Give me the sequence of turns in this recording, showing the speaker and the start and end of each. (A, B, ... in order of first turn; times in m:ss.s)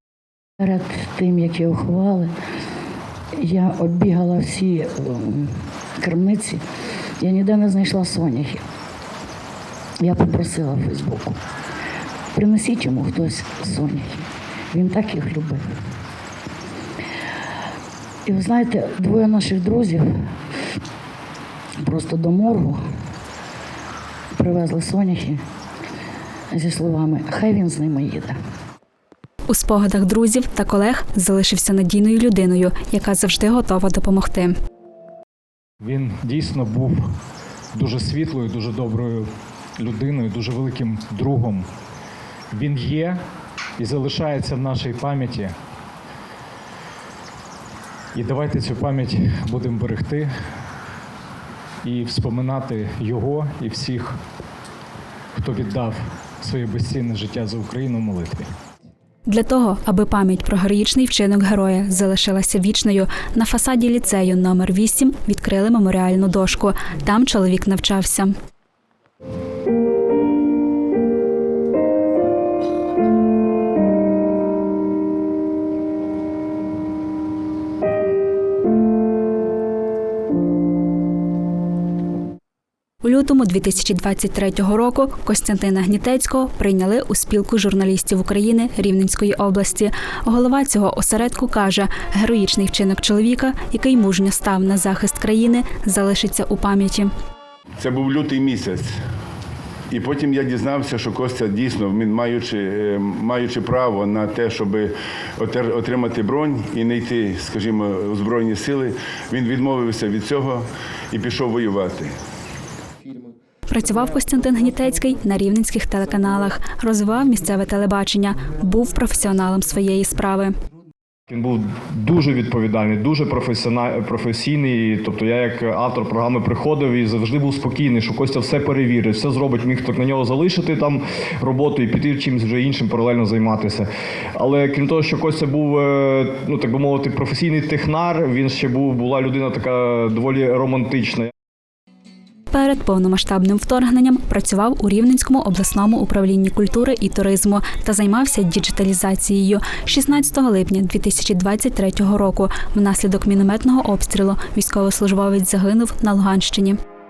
0:00.6-0:02.3 A
0:03.4-0:06.6 A
0:07.2-0:08.6 A
0:10.0-0:11.4 A
0:12.3-0:15.6 A
0:18.2-0:20.0 A
0:21.8-0:22.8 A
0:24.4-0:25.4 A
0:26.5-0:28.4 A
0:29.5-0:34.5 B
0:35.8-0:37.0 C
0:37.7-0:41.6 C
0:42.5-0:43.2 C
0:43.8-0:45.5 C
0:48.1-0:50.3 C
0:51.8-0:54.2 C
0:55.3-0:58.5 C
0:59.2-1:08.3 B
1:23.0-1:37.1 B
1:37.8-1:38.9 D
1:39.9-1:52.1 D
1:53.7-2:00.5 B
2:01.3-2:21.3 E
2:22.5-2:36.8 B